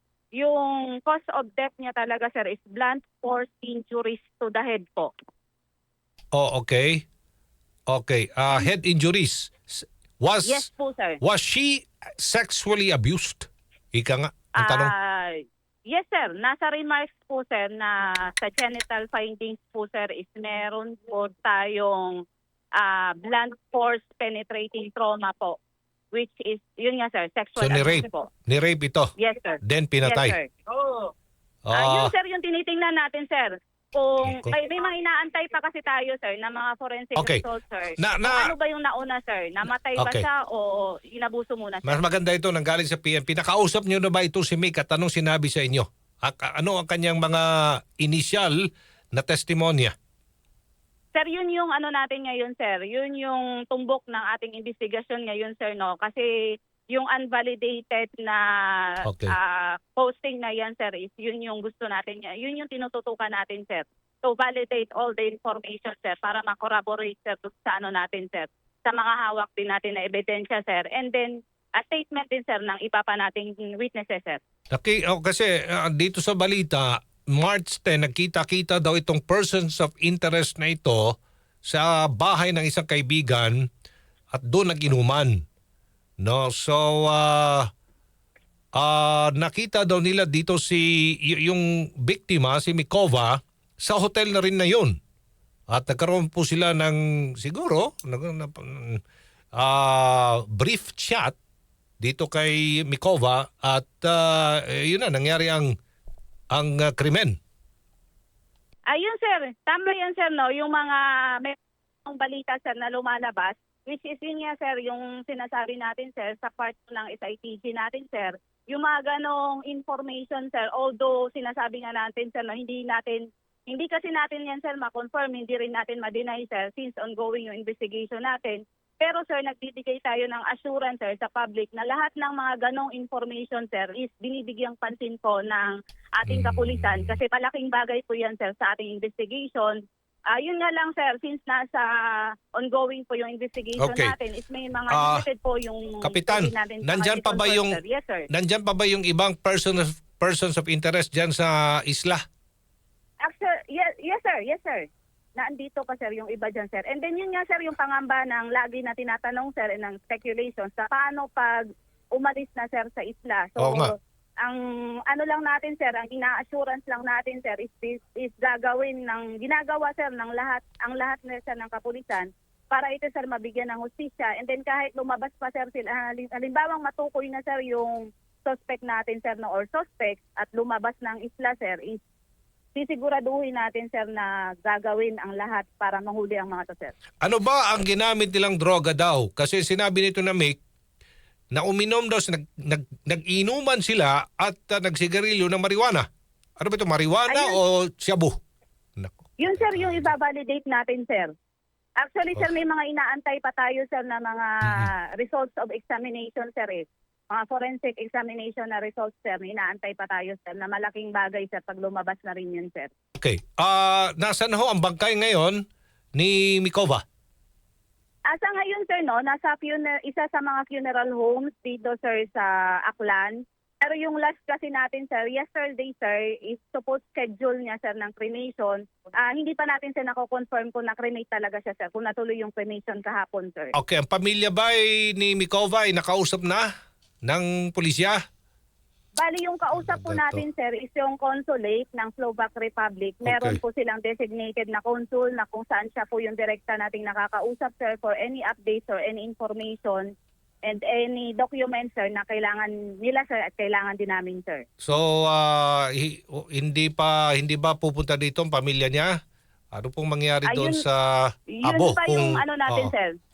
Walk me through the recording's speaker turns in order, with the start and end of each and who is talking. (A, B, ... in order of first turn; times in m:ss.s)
0:00.4-0:05.1 A
0:06.3-0:07.0 B
0:07.9-0:10.7 B
0:10.4-0:11.2 A
0:11.2-0:14.9 B
0:14.6-0:22.2 A
0:22.8-0:25.6 A
0:26.1-0:28.3 A
0:27.6-0:29.1 B
0:29.2-0:31.1 A
0:29.6-0:30.4 B
0:31.7-0:32.1 B
0:31.7-0:42.0 A
0:34.3-0:34.6 B
0:37.2-0:37.4 B
0:38.0-0:38.5 B
0:40.0-0:40.3 B
0:41.8-0:48.6 B
0:49.1-0:49.9 B
0:51.2-0:56.3 A
0:56.9-1:14.4 A
0:59.0-0:59.4 B
1:14.7-1:21.1 B
1:21.6-1:23.6 B
1:24.3-1:25.4 B
1:26.2-1:27.7 B
1:28.8-1:34.9 B
1:35.7-1:39.0 B
1:39.6-1:41.4 B
1:42.0-1:45.7 B
1:46.5-1:47.4 B
1:48.9-2:19.8 A
2:16.3-2:17.2 B
2:20.3-2:28.3 A
2:23.8-2:24.2 B
2:24.9-2:25.2 B
2:26.0-2:27.8 B
2:28.3-2:32.2 B
2:33.2-3:02.0 A
2:43.6-2:43.9 B
3:02.8-3:06.9 A
3:07.2-3:10.6 B
3:11.5-3:16.0 B
3:16.6-3:18.4 B
3:17.3-3:17.6 A
3:19.0-3:20.1 B
3:19.4-3:21.3 A
3:22.0-3:32.9 A
3:24.7-3:24.9 B
3:33.2-3:35.6 B
3:36.2-3:37.0 B
3:38.3-3:53.7 A
3:53.8-3:56.6 B
3:57.3-3:58.2 B
3:59.2-4:10.1 A
3:59.8-4:00.4 B
4:03.2-4:03.6 B
4:10.6-4:14.7 A
4:14.8-4:19.1 B
4:19.7-4:22.9 B
4:20.5-4:20.8 A
4:21.5-4:23.1 A